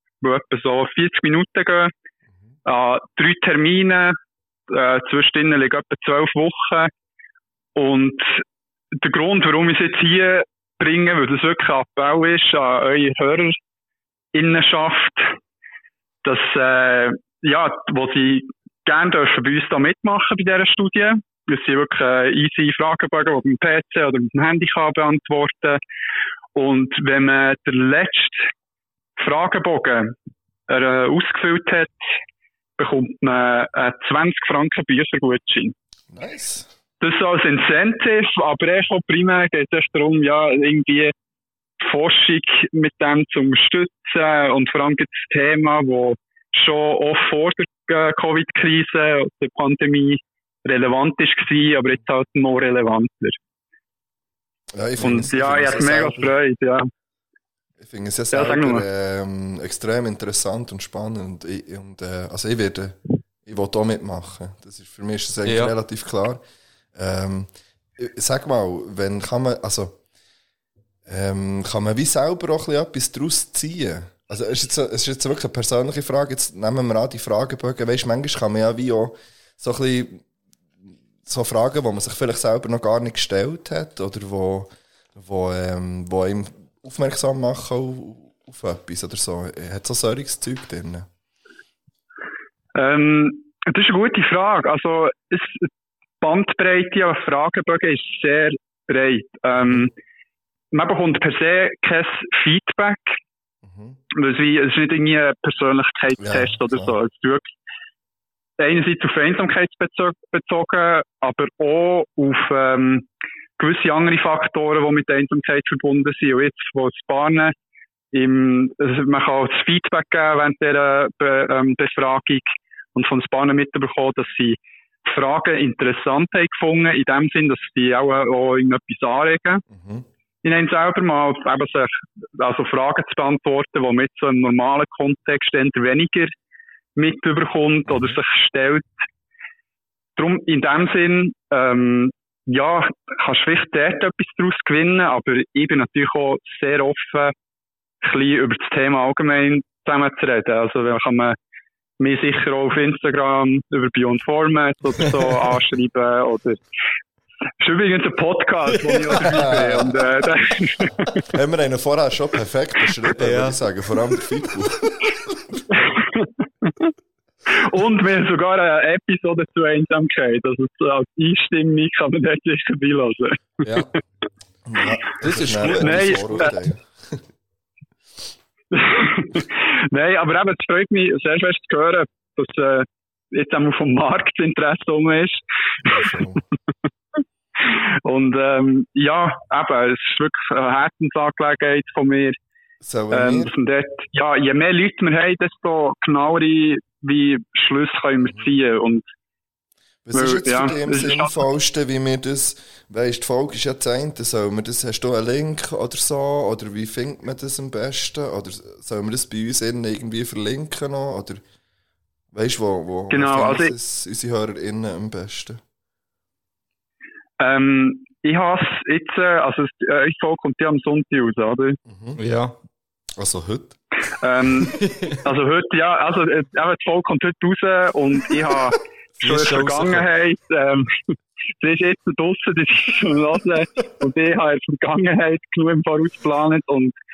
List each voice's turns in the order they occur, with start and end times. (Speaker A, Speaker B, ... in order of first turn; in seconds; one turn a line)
Speaker A: 0.2-1.9
Speaker A: 2.7-4.2
Speaker A: 4.7-6.9
Speaker A: 7.8-8.4
Speaker A: 9.0-13.6
Speaker A: 14.3-15.3
Speaker A: 16.2-25.8
Speaker A: 26.6-28.5
Speaker A: 29.2-30.1
Speaker A: 30.7-31.9
Speaker A: 32.8-35.7
Speaker B: 36.1-36.7
Speaker A: 37.0-41.1
Speaker A: 41.8-53.4
Speaker B: 54.7-56.3
Speaker A: 55.0-56.9
Speaker B: 57.8-66.4
Speaker A: 58.3-58.9
Speaker C: 65.5-65.7
Speaker B: 67.0-70.0
Speaker B: 71.1-80.2
Speaker B: 81.2-91.1
Speaker A: 92.8-95.7
Speaker A: 96.2-99.9
Speaker B: 99.6-99.9
Speaker A: 100.7-103.2
Speaker B: 103.6-104.0
Speaker A: 104.1-107.5
Speaker B: 106.2-107.0
Speaker A: 108.6-113.1
Speaker A: 113.6-117.5
Speaker A: 118.1-129.6
Speaker B: 129.7-130.1
Speaker A: 130.4-136.3
Speaker A: 137.0-138.9
Speaker B: 137.9-138.2
Speaker A: 140.2-147.3
Speaker A: 148.0-151.4
Speaker A: 152.0-156.6
Speaker A: 157.6-161.2
Speaker C: 158.7-159.7
Speaker B: 159.3-160.0
Speaker B: 161.3-165.6
Speaker C: 163.2-164.2
Speaker A: 165.8-166.7
Speaker A: 167.5-173.8
Speaker C: 173.6-173.9
Speaker B: 174.7-177.2
Speaker C: 175.2-176.5
Speaker A: 175.6-176.5
Speaker A: 178.7-186.1
Speaker B: 185.8-186.4
Speaker A: 187.7-192.4
Speaker B: 192.8-193.5
Speaker A: 193.1-199.1
Speaker B: 198.2-198.5
Speaker B: 200.1-211.4
Speaker A: 200.1-201.4
Speaker B: 212.3-215.6
Speaker A: 213.1-213.7
Speaker A: 217.4-221.8
Speaker B: 221.9-222.2
Speaker C: 222.2-222.6
Speaker B: 223.2-223.8
Speaker A: 224.2-236.9
Speaker C: 224.7-225.2
Speaker C: 229.2-230.1